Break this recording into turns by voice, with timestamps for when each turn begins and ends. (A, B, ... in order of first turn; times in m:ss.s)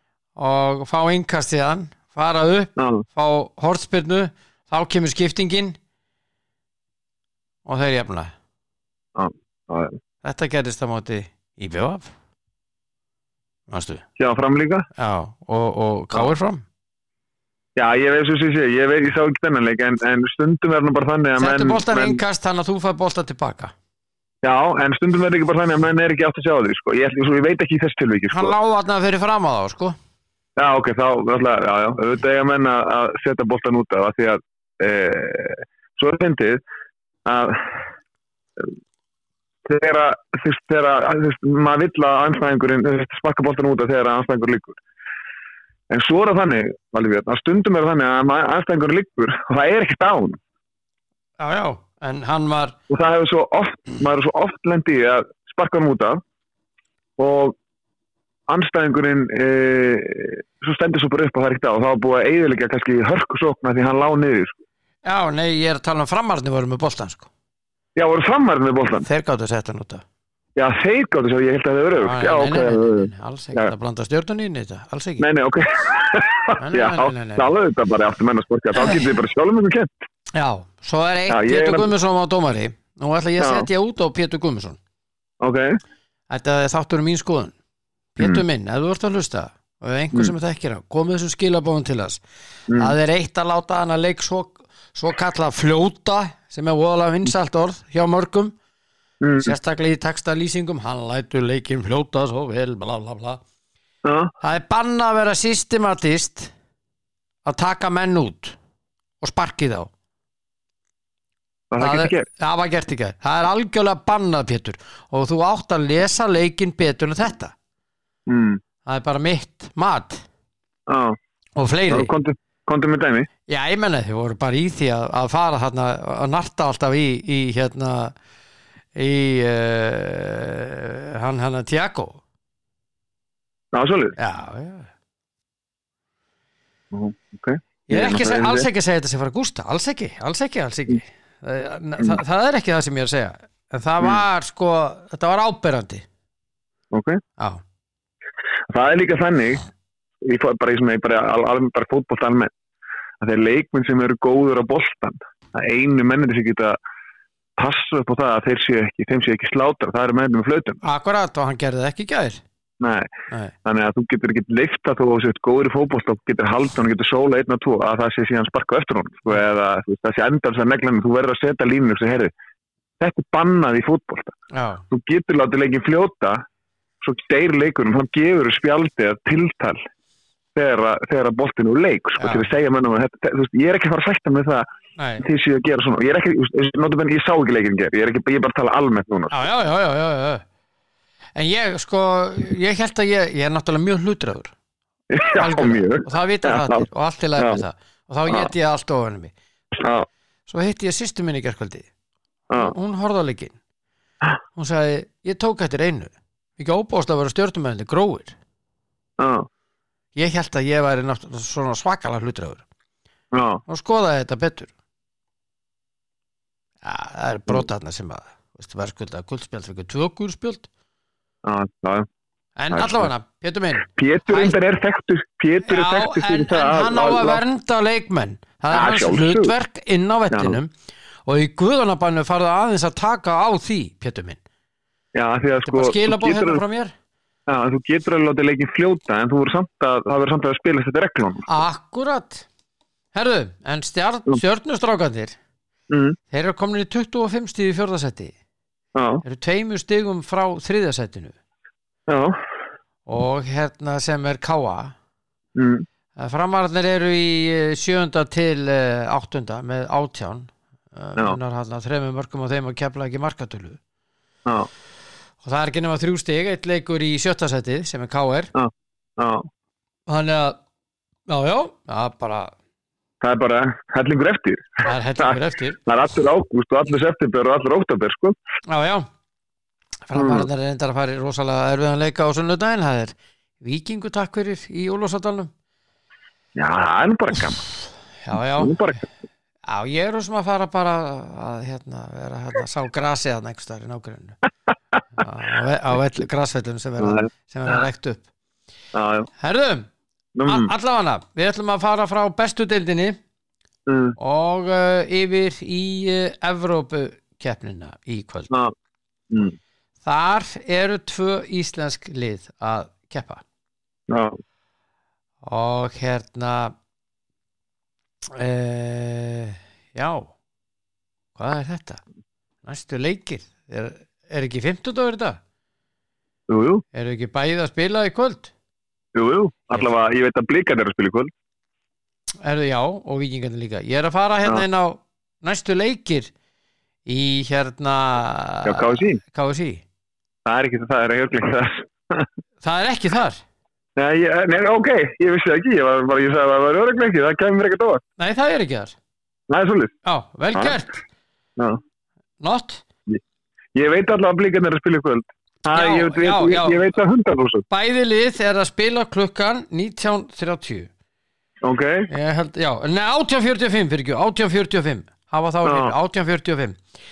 0:00.4-0:05.8 A
0:02.8-0:03.0 B
0:07.7-0:08.3 A
0:09.2-0:10.0 B
0:10.2-0:12.1 A
0:13.7-0:14.0 A
0:14.2-0:14.9 B
0:15.0-0:16.6 A
0:17.8-0:22.2 B
0:21.4-0:23.7 A
0:24.4-0:28.5 B
0:28.3-0:30.0 A
0:30.6-0:36.6 B
0:37.2-0:37.8 B
0:39.6-0:44.8 B
0:45.9-0:50.4 B
0:51.4-0:52.8 A
0:52.9-0:56.2 B
0:57.2-0:57.6 B
0:58.5-1:04.6 B
1:05.0-1:07.3 A
1:08.0-1:09.1 B
1:09.0-1:10.0 A
1:10.6-1:13.7 B
1:12.0-1:15.2 A
1:15.2-1:19.9 B
1:16.6-1:17.5 A
1:18.8-1:19.2 A
1:20.3-1:24.8 A
1:21.3-1:21.9 B
1:23.4-1:23.7 B
1:25.4-1:25.8 B
1:26.3-1:27.6 A
1:28.2-1:32.2 A
1:32.7-1:32.9 B
1:32.8-1:38.6 A
1:39.2-1:39.5 B
1:39.4-1:43.4 A
1:44.0-1:44.3 B
1:44.4-1:46.5 A
1:47.4-1:48.6 A
1:49.2-1:49.9 A
1:51.7-1:52.3 B
1:51.8-1:57.5 A
1:58.3-1:58.6 B
1:58.8-2:00.2 A
2:00.9-2:01.2 B
2:01.6-2:02.1 A
2:01.9-2:03.3 B
2:03.5-2:08.1 A
2:09.0-2:12.2 A
2:13.7-2:14.2 B
2:14.2-2:14.9 A
2:16.9-2:18.7 B
2:17.9-2:26.0 A
2:26.9-2:27.2 B
2:28.7-2:29.6 B
2:30.2-2:32.5 B
2:33.2-2:36.8 B
2:37.6-2:40.8 B
2:40.8-2:42.4 A
2:42.8-2:43.1 B
2:43.6-2:52.3 B
2:53.0-2:54.4 B
2:54.5-2:54.8 A
2:54.9-2:56.4 B
2:57.0-2:59.8 B
3:00.6-3:04.7 B
3:02.2-3:02.5 A
3:05.0-3:05.2 A
3:05.2-3:09.4 B
3:09.3-3:10.4 A
3:11.4-3:14.5 A
3:15.1-3:16.8 B
3:15.3-3:19.3 A
3:19.8-3:20.1 B
3:20.5-3:21.9 A
3:22.5-3:23.6 A
3:24.6-3:28.4 A
3:29.2-3:29.5 B
3:30.2-3:32.6 A
3:33.3-3:33.6 B
3:33.7-3:34.7 A
3:36.8-3:40.7 A
3:41.4-3:42.1 B
3:42.6-3:44.6 A
3:42.7-3:43.1 B
3:43.9-3:47.4 B
3:45.6-3:50.7 A
3:48.7-3:49.5 B
3:50.3-3:50.6 B
3:51.3-3:54.4 A
3:55.2-3:56.6 B
3:55.7-3:56.9 A
3:57.5-4:01.5 B
4:01.5-4:02.5 A
4:03.1-4:05.4 A
4:05.9-4:06.2 B
4:06.3-4:08.3 A
4:09.0-4:09.2 B
4:09.2-4:11.4 A
4:12.1-4:12.4 B
4:13.1-4:15.0 A
4:15.6-4:15.9 B
4:16.2-4:23.8 A
4:25.4-4:28.5 A
4:28.6-4:29.5 B
4:30.1-4:30.6 A
4:31.3-4:32.5 A
4:33.2-4:38.4 B
4:34.8-4:35.8 A
4:38.7-4:39.1 A
4:40.1-4:45.5 A
4:40.2-4:40.5 B
4:46.6-4:47.6 B
4:48.2-4:48.8 A
4:48.6-4:49.0 B
4:49.7-4:54.4 A
4:55.2-4:58.3 A
4:58.9-4:59.3 B
4:59.4-4:59.9 A
5:00.4-5:00.7 B
5:00.5-5:03.2 A
5:03.9-5:04.2 B
5:04.2-5:08.5 A
5:09.3-5:09.6 B
5:10.0-5:13.4 A
5:14.1-5:14.4 B
5:15.4-5:16.7 A
5:18.3-5:20.3 A
5:21.4-5:22.0 A
5:22.6-5:25.4 A
5:26.5-5:26.8 B
5:26.9-5:28.5 A
5:29.2-5:31.3 B
5:32.4-5:36.3 A
5:37.1-5:39.8 A
5:38.6-5:39.2 B
5:40.4-5:42.3 B
5:42.6-5:43.4 A
5:44.0-5:48.0 B
5:48.2-5:49.0 A
5:49.5-5:49.9 B
5:50.0-5:51.0 A
5:52.4-5:52.8 A
5:53.8-5:57.6 B
5:55.7-5:57.0 A
5:57.7-6:00.9 A
6:01.6-6:02.1 B
6:02.1-6:06.8 A
6:05.6-6:05.9 B